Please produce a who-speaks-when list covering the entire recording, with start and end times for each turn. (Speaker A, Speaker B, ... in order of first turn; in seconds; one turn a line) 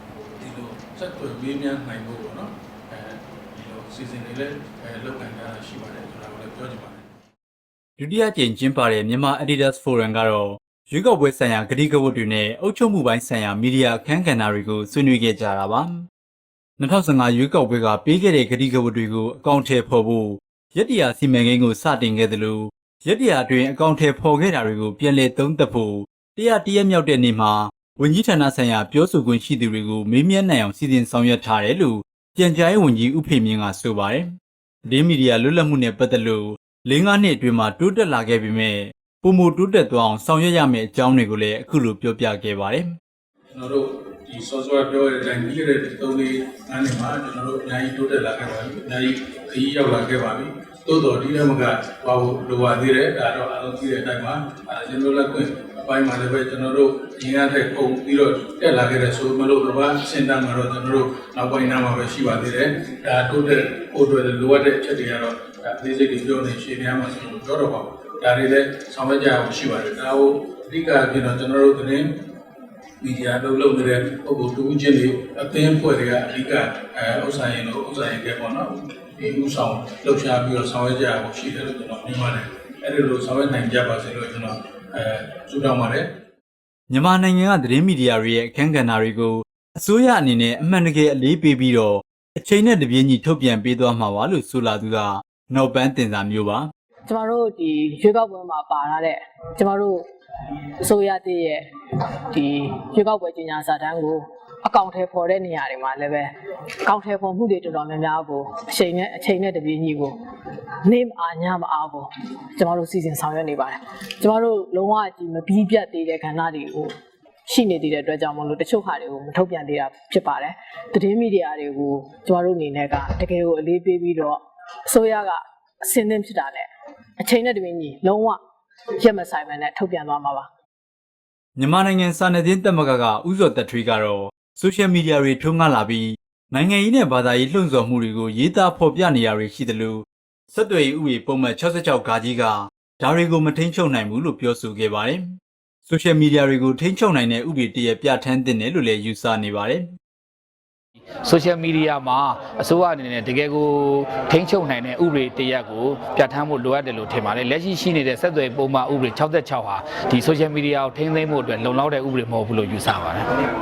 Speaker A: 0.4-7.0
Speaker B: 8.0-16.0
Speaker B: 16.8-34.3
Speaker B: 34.9-42.9
Speaker A: 43.5-72.1
Speaker A: 73.0-86.1
Speaker B: 86.9-96.7
Speaker C: 97.1-100.0
Speaker C: 100.8-101.7
Speaker C: 102.3-106.3
Speaker C: 106.8-110.2
Speaker C: 110.8-116.9
Speaker C: 117.5-126.7
Speaker C: 127.2-128.4
Speaker C: 129.0-130.5
Speaker B: 131.6-145.2
Speaker B: 145.9-149.9
Speaker D: 151.0-163.3